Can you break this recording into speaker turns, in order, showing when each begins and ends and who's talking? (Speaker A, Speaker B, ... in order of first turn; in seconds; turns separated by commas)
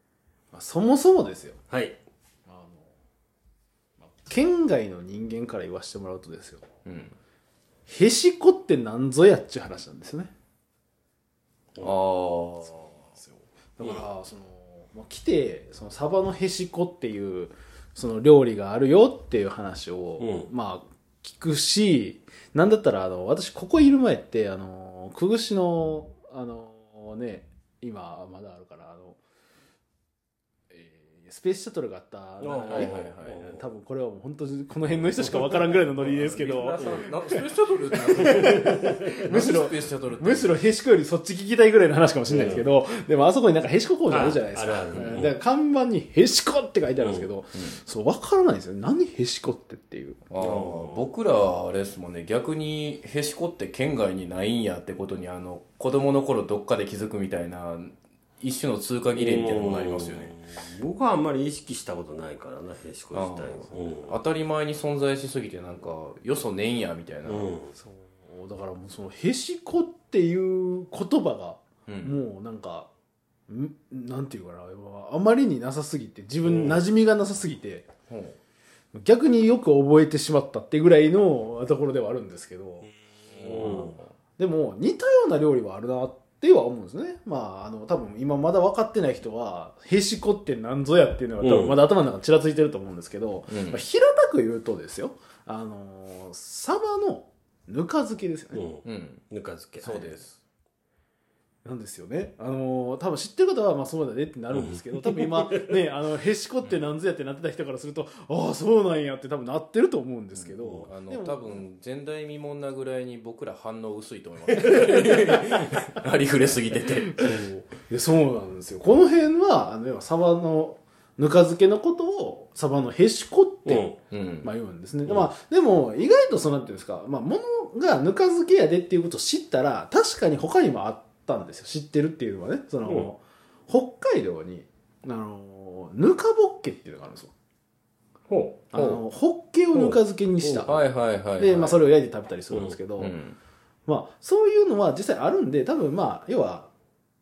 Speaker A: 0.5-1.6, Speaker B: 1.7-2.0, Speaker A: 2.5-2.9, Speaker A: 4.0-6.7, Speaker C: 6.9-7.2, Speaker A: 7.9-10.3, Speaker C: 11.8-12.9, Speaker A: 12.7-29.2, Speaker B: 20.2-20.5, Speaker A: 30.7-37.4, Speaker B: 32.4-33.7, Speaker C: 32.7-33.5, Speaker C: 35.9-40.6, Speaker B: 36.8-37.1, Speaker A: 38.0-50.2, Speaker B: 38.2-39.3, Speaker B: 42.3-42.6, Speaker B: 44.1-45.3, Speaker B: 47.0-47.3, Speaker C: 50.3-60.3, Speaker B: 50.4-51.1, Speaker B: 59.1-64.2, Speaker C: 63.1-67.5, Speaker B: 67.3-67.7, Speaker A: 67.8-72.9, Speaker C: 71.9-72.2, Speaker A: 73.5-77.9, Speaker B: 76.5-76.8, Speaker C: 78.1-78.4, Speaker A: 78.9-82.9, Speaker C: 83.3-84.0, Speaker B: 83.4-83.9, Speaker A: 83.5-98.6, Speaker B: 91.4-91.8, Speaker C: 93.5-93.8, Speaker B: 98.5-100.2, Speaker C: 98.8-99.2, Speaker C: 99.8-100.4, Speaker A: 101.7-111.6, Speaker B: 104.5-105.8, Speaker C: 110.3-117.4, Speaker A: 117.2-123.9, Speaker B: 123.7-124.0, Speaker C: 124.1-124.5, Speaker A: 124.4-137.3, Speaker B: 132.8-133.1, Speaker B: 138.3-138.7, Speaker A: 138.7-140.8, Speaker C: 138.7-139.0, Speaker B: 139.7-140.7, Speaker C: 140.6-141.8, Speaker A: 141.4-143.2, Speaker B: 142.5-142.8, Speaker C: 143.0-143.4, Speaker A: 143.9-146.7